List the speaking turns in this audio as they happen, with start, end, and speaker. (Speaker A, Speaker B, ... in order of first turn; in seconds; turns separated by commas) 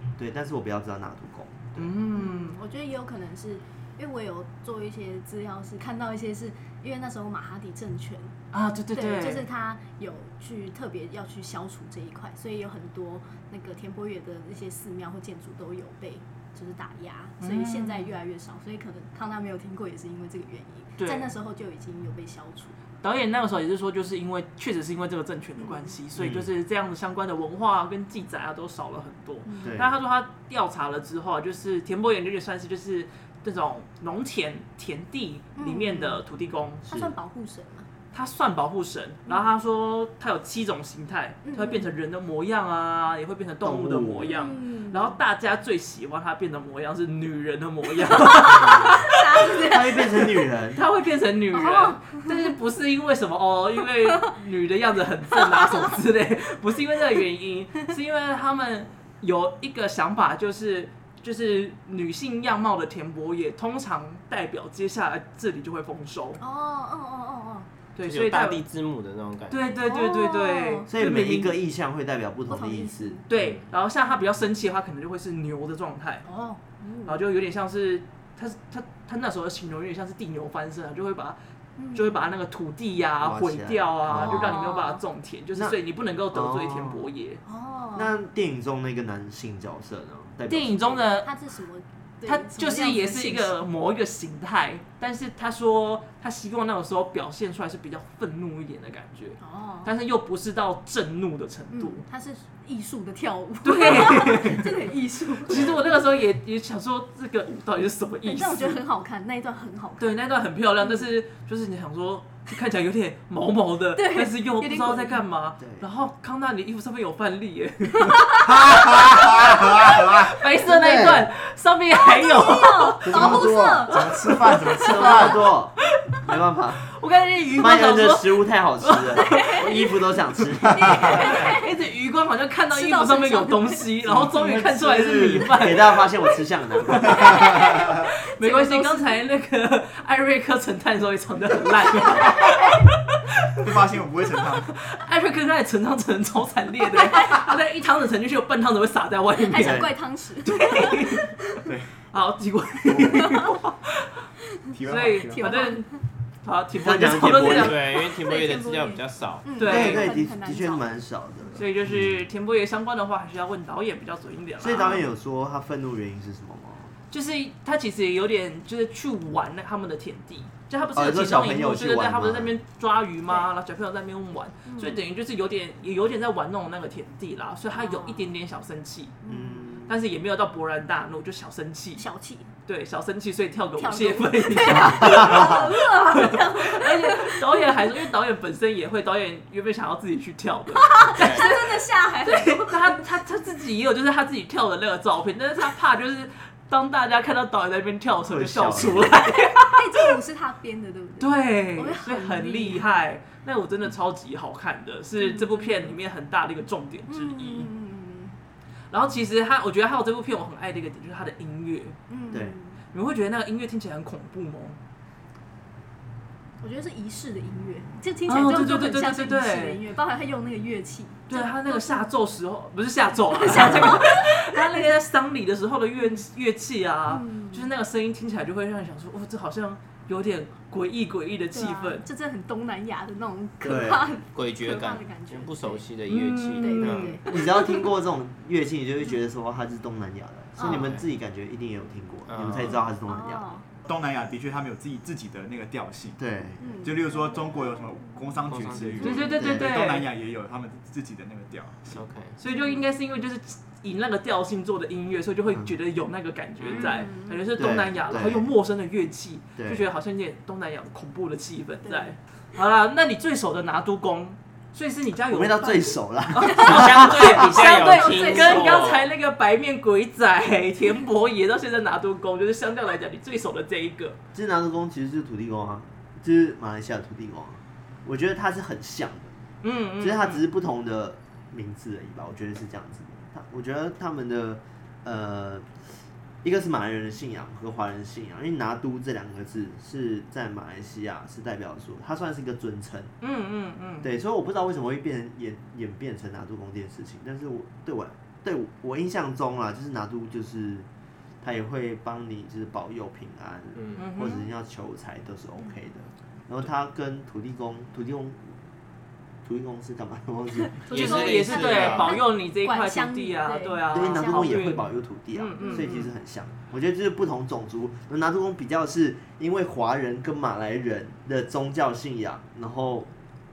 Speaker A: 0.2-1.9, Speaker B: 1.8-2.6, Speaker C: 2.1-8.3, Speaker B: 8.5-9.4, Speaker C: 8.9-22.8, Speaker B: 17.4-18.1, Speaker B: 21.0-21.3, Speaker B: 23.0-36.9, Speaker C: 25.6-26.0, Speaker A: 26.1-26.5, Speaker C: 29.4-29.8, Speaker A: 29.6-29.9, Speaker C: 35.6-36.2, Speaker A: 36.9-37.1, Speaker C: 36.9-37.9, Speaker B: 38.1-49.5, Speaker C: 41.4-41.9, Speaker A: 43.6-44.4, Speaker C: 44.2-45.1, Speaker C: 48.4-50.4, Speaker A: 48.6-48.9, Speaker A: 49.6-50.8, Speaker B: 50.7-66.4, Speaker C: 51.5-52.4, Speaker C: 66.4-67.7, Speaker B: 67.9-68.6, Speaker D: 68.0-69.6, Speaker B: 69.5-71.6, Speaker C: 69.8-70.9, Speaker A: 70.9-73.2, Speaker C: 72.5-73.2, Speaker B: 73.3-76.3, Speaker D: 73.4-73.6, Speaker C: 76.2-77.2, Speaker B: 77.0-81.4, Speaker C: 81.8-82.2, Speaker B: 81.9-87.4, Speaker A: 83.2-84.6, Speaker C: 84.1-85.0, Speaker A: 86.3-87.1, Speaker C: 87.4-88.1, Speaker A: 87.9-91.0, Speaker B: 90.5-91.3, Speaker C: 91.1-93.5, Speaker B: 92.2-102.0, Speaker C: 99.4-99.9, Speaker C: 101.7-105.7, Speaker B: 103.6-104.7, Speaker B: 105.5-108.8, Speaker D: 105.5-105.8, Speaker C: 108.2-110.1, Speaker B: 110.0-125.3, Speaker C: 114.0-115.2, Speaker A: 115.6-115.8, Speaker C: 118.0-118.7, Speaker E: 118.5-121.2, Speaker C: 122.0-125.3, Speaker E: 123.0-125.4, Speaker A: 123.1-123.8, Speaker A: 124.7-126.8, Speaker B: 126.8-129.8, Speaker A: 127.6-131.3, Speaker C: 129.2-129.7, Speaker C: 130.7-131.7, Speaker E: 130.8-131.1, Speaker B: 131.0-136.1, Speaker C: 132.7-133.9, Speaker A: 134.1-134.3, Speaker E: 134.2-135.5, Speaker A: 135.1-137.4, Speaker E: 137.1-137.9, Speaker C: 137.1-139.2, Speaker B: 138.0-143.6, Speaker E: 143.6-144.7, Speaker B: 144.8-151.4, Speaker C: 147.0-147.5, Speaker C: 149.3-151.3, Speaker A: 149.6-149.9, Speaker E: 151.7-151.9, Speaker B: 152.1-154.1, Speaker E: 154.7-155.6, Speaker B: 154.8-155.9, Speaker C: 155.3-156.0, Speaker B: 156.4-157.8, Speaker A: 156.8-157.8, Speaker D: 157.4-159.7, Speaker C: 157.9-160.8, Speaker B: 159.6-160.1, Speaker A: 159.6-162.3, Speaker B: 161.6-165.0, Speaker A: 164.6-166.9, Speaker B: 167.1-179.2, Speaker A: 170.9-172.6, Speaker C: 174.7-175.0, Speaker C: 177.7-178.3, Speaker C: 179.2-179.9, Speaker A: 179.3-179.9, Speaker B: 179.8-182.0, Speaker C: 182.0-182.5, Speaker B: 182.7-200.1, Speaker C: 183.8-187.7, Speaker A: 184.9-185.5, Speaker C: 190.7-193.0, Speaker D: 191.1-191.5, Speaker A: 198.2-199.2, Speaker C: 199.7-203.0, Speaker B: 201.2-207.7, Speaker C: 205.2-205.9, Speaker C: 207.1-208.3, Speaker B: 208.9-212.0, Speaker C: 212.1-212.8, Speaker A: 212.3-212.6, Speaker B: 212.9-214.8, Speaker C: 216.6-222.1, Speaker B: 218.3-219.8, Speaker B: 221.3-232.0, Speaker C: 223.3-224.8, Speaker C: 227.1-227.7, Speaker C: 231.5-235.8, Speaker A: 233.6-234.2, Speaker D: 234.3-237.2, Speaker B: 236.1-237.2, Speaker C: 236.6-237.9, Speaker A: 237.2-243.5, Speaker C: 240.6-240.9, Speaker D: 240.6-241.0, Speaker D: 242.3-242.8, Speaker C: 243.1-243.6, Speaker E: 243.8-246.2, Speaker A: 246.2-246.7, Speaker C: 246.6-247.7, Speaker E: 246.8-252.0, Speaker D: 248.5-249.2, Speaker C: 249.0-249.4, Speaker B: 249.0-250.1, Speaker A: 249.4-249.7, Speaker D: 251.9-252.4, Speaker B: 252.4-274.2, Speaker C: 252.5-252.8, Speaker D: 256.6-256.9, Speaker C: 256.7-257.4, Speaker A: 257.6-258.5, Speaker A: 259.6-259.8, Speaker C: 261.8-262.1, Speaker A: 265.3-267.3, Speaker C: 266.4-266.8, Speaker D: 266.5-269.0, Speaker C: 267.3-268.9, Speaker A: 274.3-279.4, Speaker B: 279.6-280.4, Speaker A: 280.0-285.8, Speaker A: 286.4-293.1, Speaker B: 293.2-294.1, Speaker A: 294.0-300.9, Speaker A: 301.4-308.6, Speaker D: 303.8-304.0, Speaker B: 303.9-304.5, Speaker A: 309.4-310.8, Speaker C: 310.6-314.8, Speaker D: 310.9-312.2, Speaker B: 310.9-316.1, Speaker A: 313.9-323.1, Speaker C: 315.6-315.9